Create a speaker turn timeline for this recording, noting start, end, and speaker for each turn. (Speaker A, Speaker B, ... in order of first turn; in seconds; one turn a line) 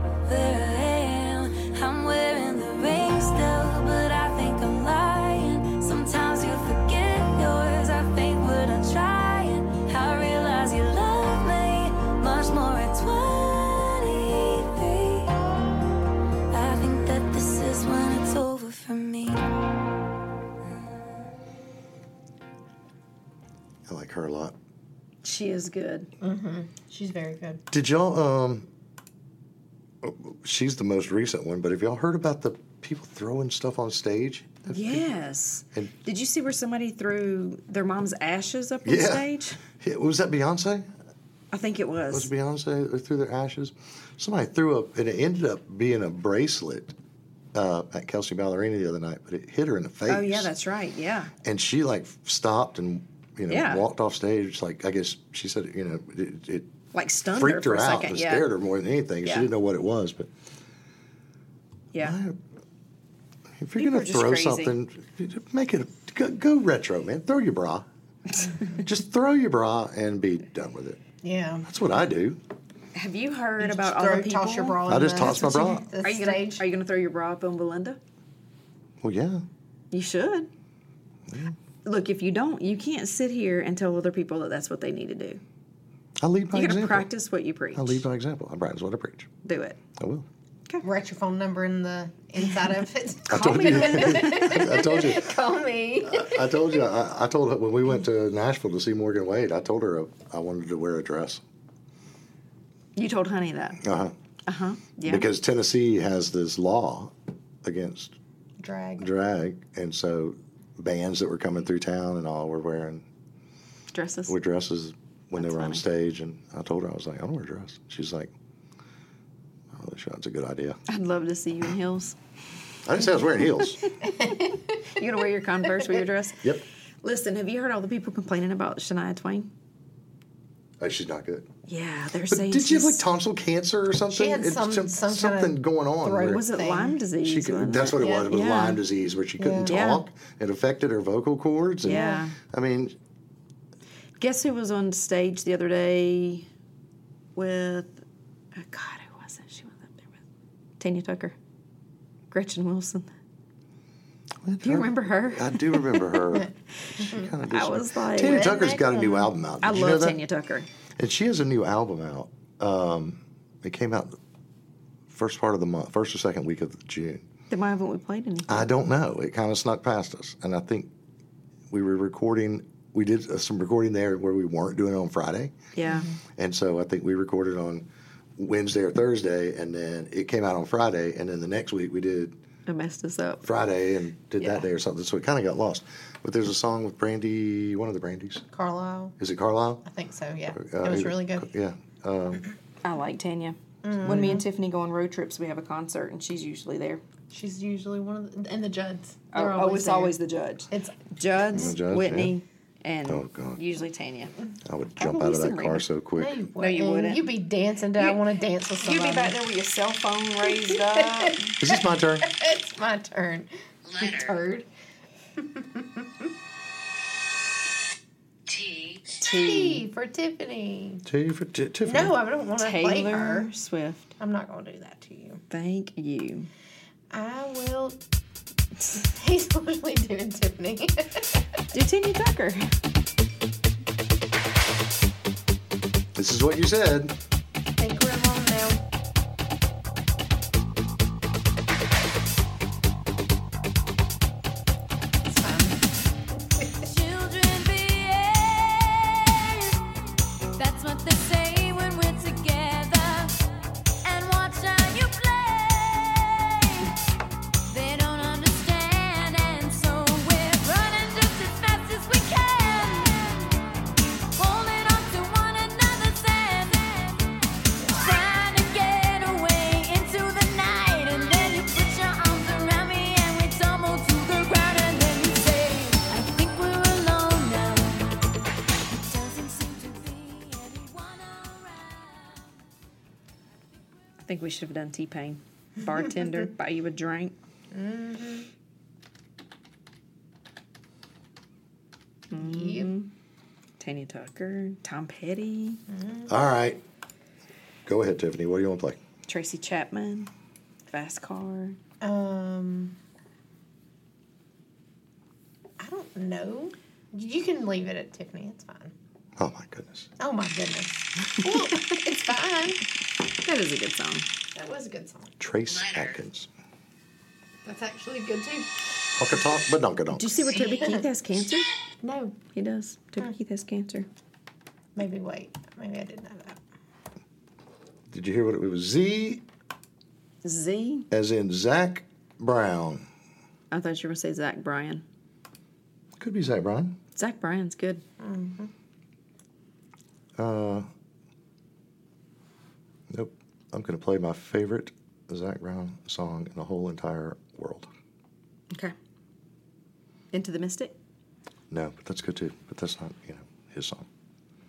Speaker A: 0.2-15.4
Speaker A: 16.5-19.5
Speaker B: 23.9-24.6
Speaker C: 25.2-26.1
Speaker D: 26.2-27.6
Speaker B: 27.7-28.7
Speaker B: 30.0-35.1
Speaker C: 34.7-39.6
Speaker B: 38.8-40.9
Speaker C: 41.5-42.3
Speaker B: 42.1-46.9
Speaker B: 47.5-50.5
Speaker C: 50.1-51.3
Speaker B: 51.4-56.7
Speaker C: 53.5-53.8
Speaker C: 56.9-58.5
Speaker B: 57.3-60.3
Speaker C: 59.2-59.5
Speaker B: 62.0-62.4
Speaker B: 63.6-67.9
Speaker C: 63.8-64.8
Speaker B: 68.8-71.0
Speaker D: 71.2-71.7
Speaker B: 71.7-72.4
Speaker C: 72.9-75.5
Speaker D: 73.6-76.6
Speaker B: 74.9-75.8
Speaker C: 76.0-78.0
Speaker B: 79.0-79.4
Speaker C: 79.9-80.5
Speaker B: 81.3-81.5
Speaker C: 81.8-85.4
Speaker B: 86.2-87.1
Speaker C: 86.5-88.0
Speaker B: 87.7-89.3
Speaker C: 89.4-89.8
Speaker B: 90.0-90.3
Speaker D: 90.8-96.8
Speaker B: 93.3-95.3
Speaker C: 93.3-94.7
Speaker B: 96.0-101.4
Speaker C: 103.0-103.8
Speaker B: 103.8-104.1
Speaker C: 104.5-105.3
Speaker B: 105.0-108.2
Speaker D: 108.6-109.1
Speaker B: 109.0-113.0
Speaker C: 113.9-114.4
Speaker B: 114.3-118.3
Speaker C: 115.3-115.8
Speaker B: 119.7-120.8
Speaker C: 120.9-122.2
Speaker B: 122.8-123.8
Speaker D: 124.0-124.5
Speaker C: 125.0-126.5
Speaker C: 127.0-129.5
Speaker B: 130.8-131.5
Speaker C: 131.7-133.0
Speaker B: 132.3-136.4
Speaker D: 134.1-137.0
Speaker C: 136.2-138.8
Speaker B: 137.2-142.9
Speaker D: 137.7-138.3
Speaker D: 139.4-139.7
Speaker C: 139.7-140.0
Speaker C: 141.8-142.4
Speaker D: 141.9-142.2
Speaker C: 144.2-146.5
Speaker C: 147.3-148.0
Speaker C: 148.5-150.2
Speaker C: 150.8-151.3
Speaker C: 152.3-153.1
Speaker B: 154.4-160.2
Speaker C: 154.6-156.2
Speaker C: 157.4-159.0
Speaker D: 158.2-159.2
Speaker C: 159.6-160.7
Speaker B: 161.0-164.2
Speaker B: 165.1-167.2
Speaker C: 167.5-168.7
Speaker B: 168.5-170.9
Speaker B: 171.7-175.6
Speaker C: 175.8-176.1
Speaker B: 176.4-182.3
Speaker C: 182.7-183.5
Speaker B: 183.4-188.4
Speaker C: 184.4-184.7
Speaker D: 188.5-189.2
Speaker B: 189.2-189.8
Speaker D: 189.8-191.5
Speaker B: 190.5-192.4
Speaker C: 192.8-197.0
Speaker D: 193.8-194.4
Speaker D: 197.3-200.2
Speaker C: 199.3-204.3
Speaker D: 200.7-200.9
Speaker B: 201.5-202.3
Speaker B: 203.1-203.6
Speaker B: 204.6-206.4
Speaker C: 205.0-205.9
Speaker D: 206.2-209.4
Speaker C: 206.6-207.3
Speaker C: 208.0-208.2
Speaker C: 208.7-211.5
Speaker B: 211.6-212.3
Speaker D: 211.7-213.5
Speaker E: 213.8-214.5
Speaker D: 214.0-214.7
Speaker D: 215.4-216.0
Speaker E: 218.5-219.2
Speaker C: 219.2-219.8
Speaker D: 219.3-221.0
Speaker B: 221.0-222.2
Speaker D: 221.8-223.5
Speaker C: 222.6-224.1
Speaker D: 224.2-225.4
Speaker C: 225.5-226.5
Speaker D: 227.1-228.0
Speaker D: 228.9-231.2
Speaker C: 231.7-232.7
Speaker B: 236.1-237.1
Speaker D: 237.8-238.8
Speaker D: 245.3-245.8
Speaker F: 247.0-248.7
Speaker F: 250.6-253.2
Speaker F: 254.1-255.9
Speaker F: 257.7-263.1
Speaker F: 264.4-267.1
Speaker F: 268.0-278.0
Speaker A: 279.1-280.1
Speaker C: 284.2-287.4
Speaker D: 287.7-288.5
Speaker C: 292.3-293.1
Speaker D: 292.3-292.9
Speaker C: 293.8-295.8
Speaker D: 295.9-296.3
Speaker B: 296.3-296.8
Speaker B: 297.9-299.0
Speaker C: 299.3-300.3
Speaker C: 300.9-301.8
Speaker D: 302.0-302.9
Speaker D: 305.8-308.9
Speaker B: 309.4-310.1
Speaker D: 310.2-312.8
Speaker C: 313.4-314.3
Speaker D: 314.5-315.3
Speaker B: 315.4-316.5
Speaker E: 315.6-316.2
Speaker D: 317.6-318.9
Speaker B: 319.1-320.4
Speaker C: 320.1-321.7
Speaker D: 320.6-321.0
Speaker D: 322.0-322.4
Speaker C: 322.5-324.1
Speaker D: 324.9-326.6
Speaker B: 328.1-329.4
Speaker C: 330.4-331.1
Speaker B: 331.1-333.0
Speaker C: 333.7-335.0
Speaker B: 336.2-337.0
Speaker C: 337.1-338.0
Speaker D: 338.2-338.7
Speaker B: 340.4-340.9
Speaker B: 343.1-347.9
Speaker C: 350.3-350.9
Speaker B: 351.7-354.1